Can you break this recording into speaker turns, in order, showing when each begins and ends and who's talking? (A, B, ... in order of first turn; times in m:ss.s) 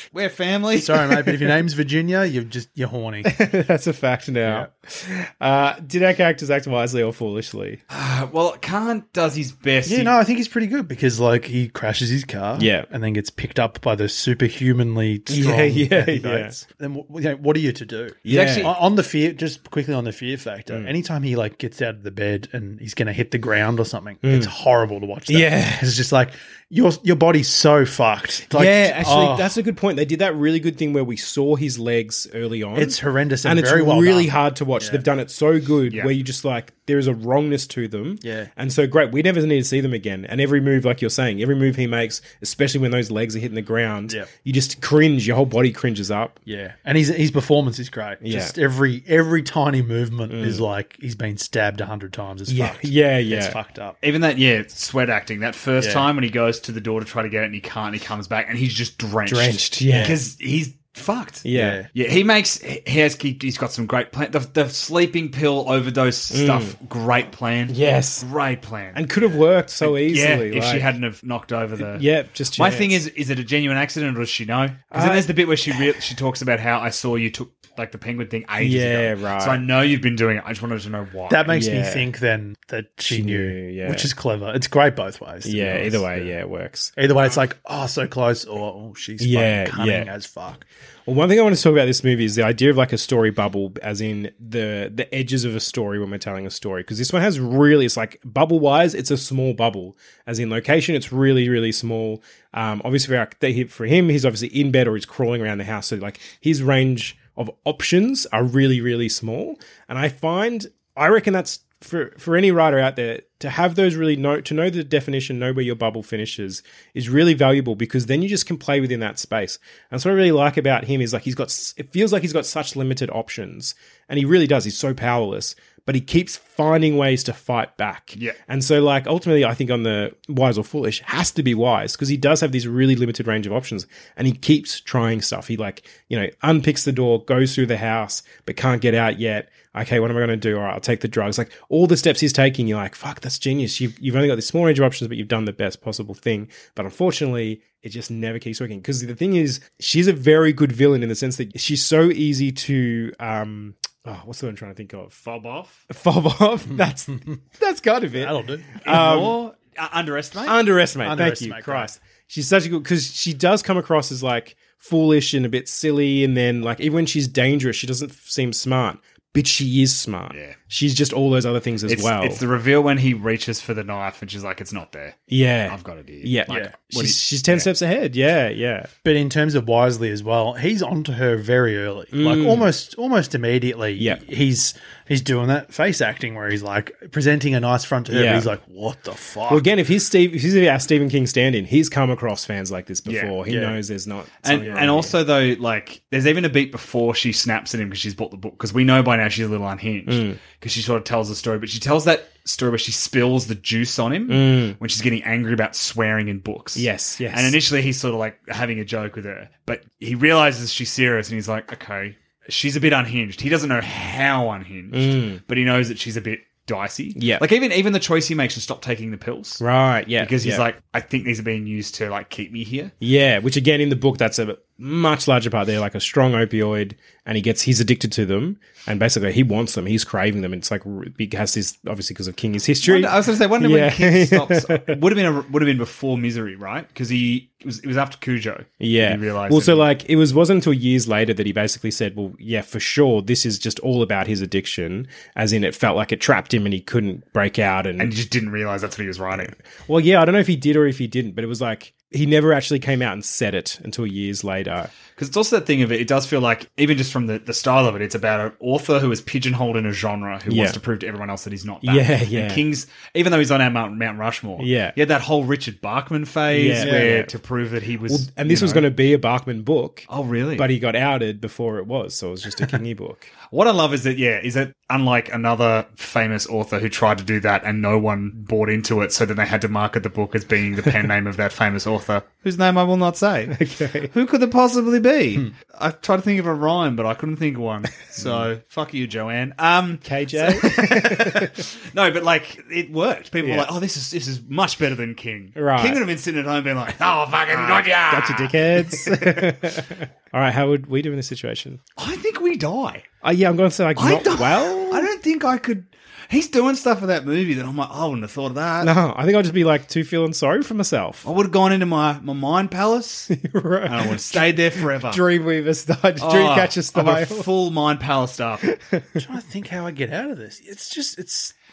0:00.1-0:01.3 A
0:00.7-0:03.4 B
0:03.3-0:07.8 C
0:04.4-0:04.7 B
0:07.9-0:10.1 A
0:09.8-0:29.6 B
0:12.6-0:12.9 C
0:15.3-0:16.6 C
0:18.2-0:18.7 C
0:18.3-0:18.8 A
0:24.2-0:24.5 C
0:25.3-0:25.8 C
0:28.5-0:46.4 C
0:32.8-0:35.1 B
0:38.2-0:38.5 B
0:46.5-0:54.0 B
0:48.2-0:48.5 C
0:50.3-0:50.6 C
0:52.5-0:53.6 C
0:54.0-1:09.1 A
0:55.8-0:56.1 B
0:59.3-1:00.2 C
0:59.9-1:00.2 B
1:01.4-1:01.8 C
1:01.5-1:01.9 B
1:06.3-1:06.8 C
1:07.7-1:08.3 C
1:08.9-1:10.9 C
1:09.8-1:21.5 A
1:11.9-1:13.0 C
1:14.9-1:15.3 C
1:18.6-1:19.6 C
1:21.3-1:26.4 B
1:21.5-1:22.1 C
1:23.1-1:24.1 C
1:25.4-1:26.9 C
1:27.0-1:30.6 B
1:29.2-1:30.1 C
1:31.1-2:35.2 C
2:35.2-2:35.8 A
2:35.9-2:39.4 C
2:36.7-2:37.4 B
2:38.2-2:38.8 B
2:38.8-2:40.6 A
2:40.5-2:52.4 C
2:41.0-2:41.9 B
2:50.3-2:50.6 A
2:51.9-2:57.7 A
2:55.3-2:58.9 C
2:56.5-2:56.7 B
2:59.0-3:09.7 B
3:02.1-3:02.7 C
3:08.1-3:08.5 C
3:09.5-3:15.1 C
3:13.1-3:13.4 A
3:13.5-3:13.8 B
3:14.4-3:39.6 A
3:20.1-3:20.4 C
3:24.3-3:24.8 C
3:26.8-3:27.6 C
3:34.9-3:35.4 C
3:37.2-3:37.4 C
3:39.6-3:40.6 C
3:40.2-3:42.9 A
3:43.0-3:55.0 C
3:52.8-3:59.9 A
3:58.8-4:08.1 C
4:08.0-4:09.5 A
4:09.8-4:14.9 C
4:15.2-4:28.9 A
4:20.5-4:20.8 C
4:21.8-4:22.6 C
4:24.6-4:25.0 C
4:26.5-4:27.3 C
4:26.8-4:27.2 B
4:28.1-4:33.3 C
4:30.1-4:30.7 A
4:33.5-4:43.6 A
4:43.5-4:44.1 C
4:44.1-4:59.6 A
4:50.0-4:51.6 C
4:53.4-4:53.7 C
4:55.6-4:56.0 C
4:58.1-5:01.8 C
5:02.0-5:03.1 A
5:03.2-5:05.1 C
5:04.0-5:08.9 A
5:08.8-5:11.3 C
5:11.2-5:13.3 A
5:13.3-5:17.5 C
5:13.9-5:15.2 A
5:16.2-5:18.6 A
5:18.6-5:19.2 C
5:19.2-5:21.5 B